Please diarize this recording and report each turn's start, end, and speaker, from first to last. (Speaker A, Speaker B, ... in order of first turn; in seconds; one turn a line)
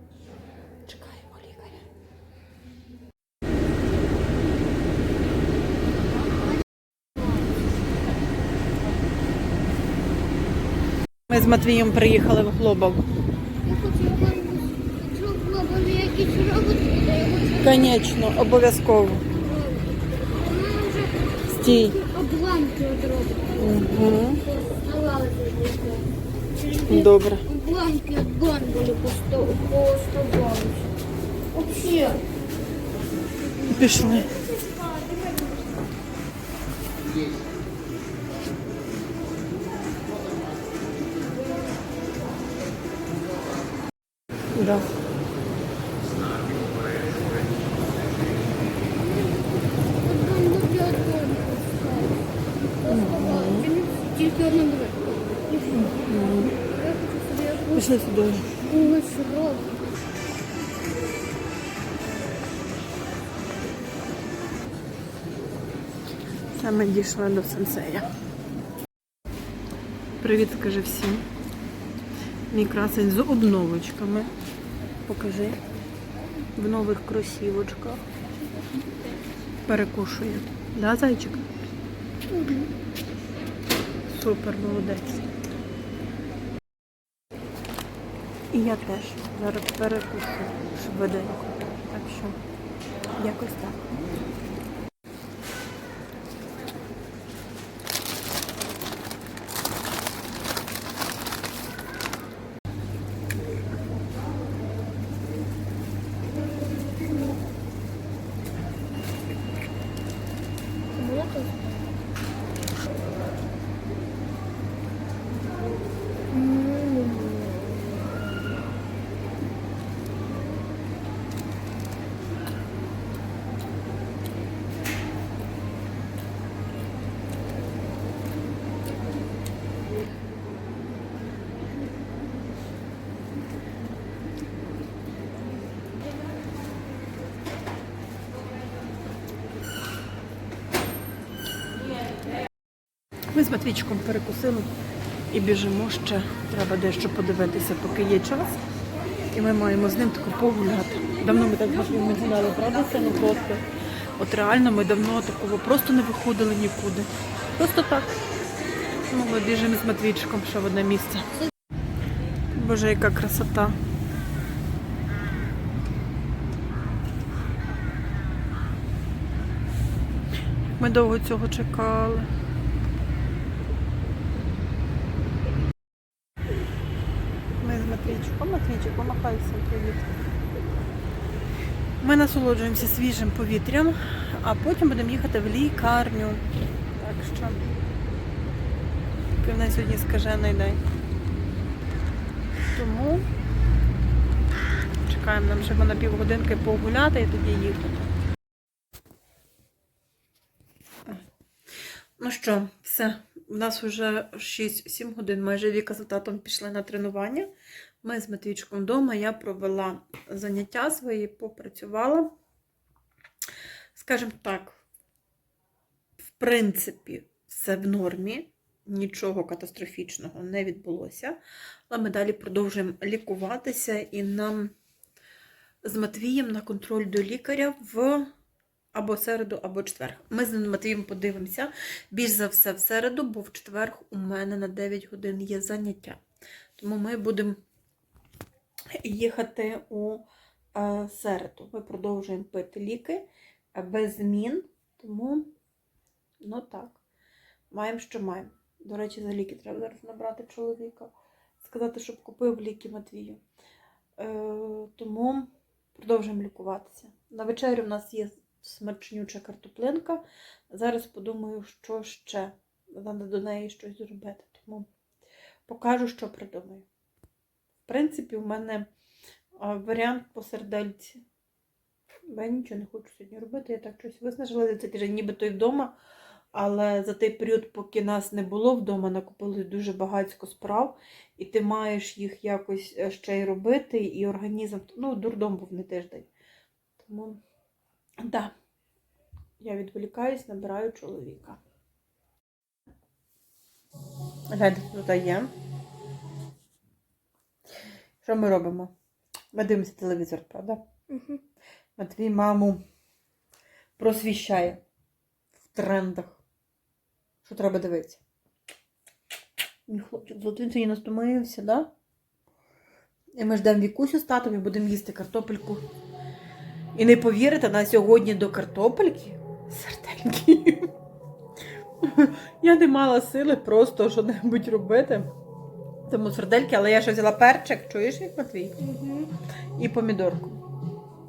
Speaker A: 0.9-1.8
Speaker A: 11.3-13.0
Speaker B: 13.6-17.9
Speaker A: 17.5-19.3
Speaker B: 19.4-23.6
Speaker A: 21.5-22.0
Speaker A: 23.6-24.4
Speaker B: 24.5-26.1
Speaker B: 26.7-30.9
Speaker A: 26.8-27.5
Speaker B: 31.5-32.2
Speaker A: 33.6-34.3
Speaker A: 44.5-44.9
Speaker B: 50.0-52.1
Speaker A: 52.9-53.7
Speaker B: 52.9-55.8
Speaker A: 55.7-56.5
Speaker B: 56.8-57.8
Speaker A: 57.7-58.6
Speaker B: 58.6-59.8
Speaker A: 66.5-68.1
Speaker A: 70.2-71.2
Speaker A: 72.5-74.3
Speaker A: 75.1-75.6
Speaker A: 76.5-78.0
Speaker A: 79.7-81.5
Speaker A: 82.3-82.7
Speaker A: 84.1-85.2
Speaker A: 88.5-92.4
Speaker A: 93.2-93.9
Speaker B: 110.9-111.8
Speaker B: 116.3-117.8
Speaker A: 143.3-144.7
Speaker A: 145.3-148.6
Speaker A: 149.3-153.6
Speaker A: 154.2-158.2
Speaker A: 159.1-161.3
Speaker A: 162.6-163.8
Speaker A: 170.8-172.3
Speaker A: 177.6-180.1
Speaker A: 182.0-186.4
Speaker A: 187.0-187.6
Speaker A: 189.4-190.8
Speaker A: 192.7-193.3
Speaker A: 195.1-198.1
Speaker A: 202.2-207.5
Speaker A: 208.0-212.3
Speaker A: 213.9-214.8
Speaker A: 216.2-221.4
Speaker A: 221.9-224.7
Speaker A: 225.8-228.3
Speaker A: 228.9-236.2
Speaker A: 236.8-237.6
Speaker A: 239.0-245.5
Speaker A: 246.4-247.0
Speaker A: 247.7-253.4
Speaker A: 254.2-264.9
Speaker A: 265.7-266.9
Speaker A: 267.9-268.9
Speaker A: 269.6-271.2
Speaker A: 272.3-275.9
Speaker A: 276.5-286.3
Speaker A: 287.0-287.4
Speaker A: 288.2-288.5
Speaker A: 289.6-291.6
Speaker A: 294.5-295.5
Speaker A: 298.2-298.9
Speaker A: 299.5-300.8
Speaker B: 301.1-301.4
Speaker A: 302.0-302.8
Speaker A: 304.0-304.8
Speaker A: 305.7-306.4
Speaker A: 307.4-308.2
Speaker A: 309.9-311.9
Speaker A: 313.4-315.8
Speaker A: 316.9-320.9
Speaker A: 322.0-325.3
Speaker A: 326.1-328.8
Speaker B: 328.8-329.3
Speaker A: 329.8-330.6